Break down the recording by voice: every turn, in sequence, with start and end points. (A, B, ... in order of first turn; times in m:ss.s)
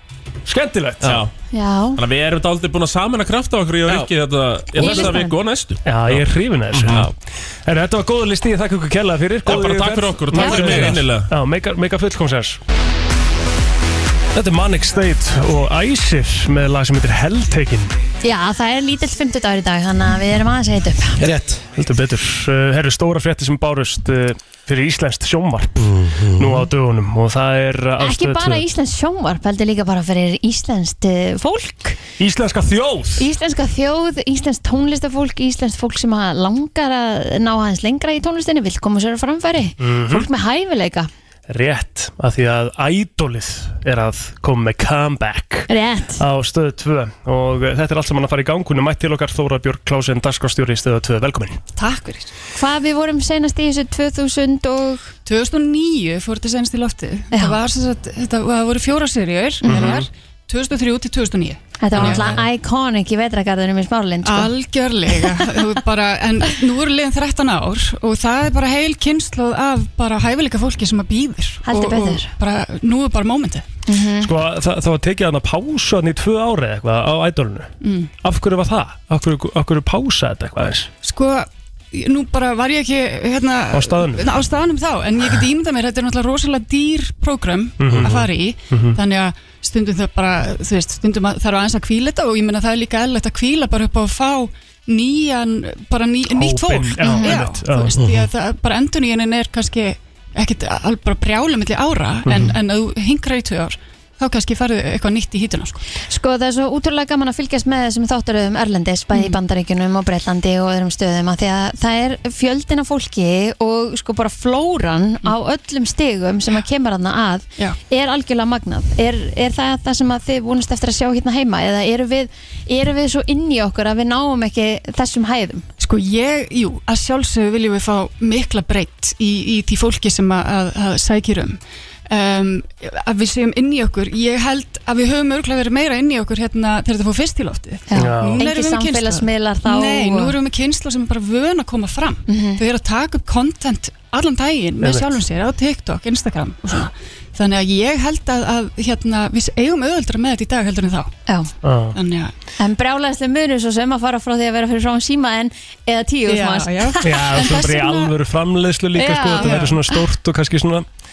0:00.5-0:01.1 A
0:01.0-0:01.3 B
0:01.5-0:02.0 C
0:02.0-0:07.1 B
0:03.9-0:04.1 D
0:04.8-0:05.3 C
0:05.8-0:07.0 A
0:07.7-0:12.6 A
0:09.4-0:11.3 B
0:14.3-0:17.9 A
0:18.2-0:21.2 C
0:21.2-0:21.7 D
0:21.8-0:28.6 A
0:25.8-0:26.7 D
0:28.0-0:32.0 C
0:32.2-0:33.3 A
0:33.2-0:41.1 C
0:39.8-0:40.3 A
0:41.5-0:51.6 A
0:45.7-0:46.2 C
0:51.8-0:52.3 E
0:52.6-0:55.1 C
0:55.3-1:02.4 E
0:57.3-0:57.6 C
0:59.6-1:00.0 C
0:59.7-1:00.0 A
1:01.8-1:04.5 C
1:02.0-1:02.3 A
1:04.2-1:13.7 E
1:11.6-1:12.3 C
1:13.9-1:14.3 C
1:14.2-1:17.7 A
1:17.8-1:18.1 E
1:18.2-1:20.9 A
1:21.0-1:45.8 E
1:23.7-1:24.4 A
1:27.8-1:29.0 A
1:27.9-1:28.2 D
1:36.3-1:38.0 A
1:37.0-1:37.3 C
1:38.0-1:38.3 D
1:42.3-1:42.6 A
1:46.0-2:05.7 C
1:49.1-1:49.4 E
2:05.8-2:31.1 E
2:17.9-2:20.4 C
2:18.0-2:18.4 A
2:22.3-2:22.6 C
2:24.8-2:25.2 A
2:31.6-2:32.0 A
2:32.0-2:32.3 E
2:32.6-2:38.0 C
2:36.2-2:38.0 E
2:37.0-2:40.9 A
2:39.0-2:40.0 C
2:39.3-2:39.8 E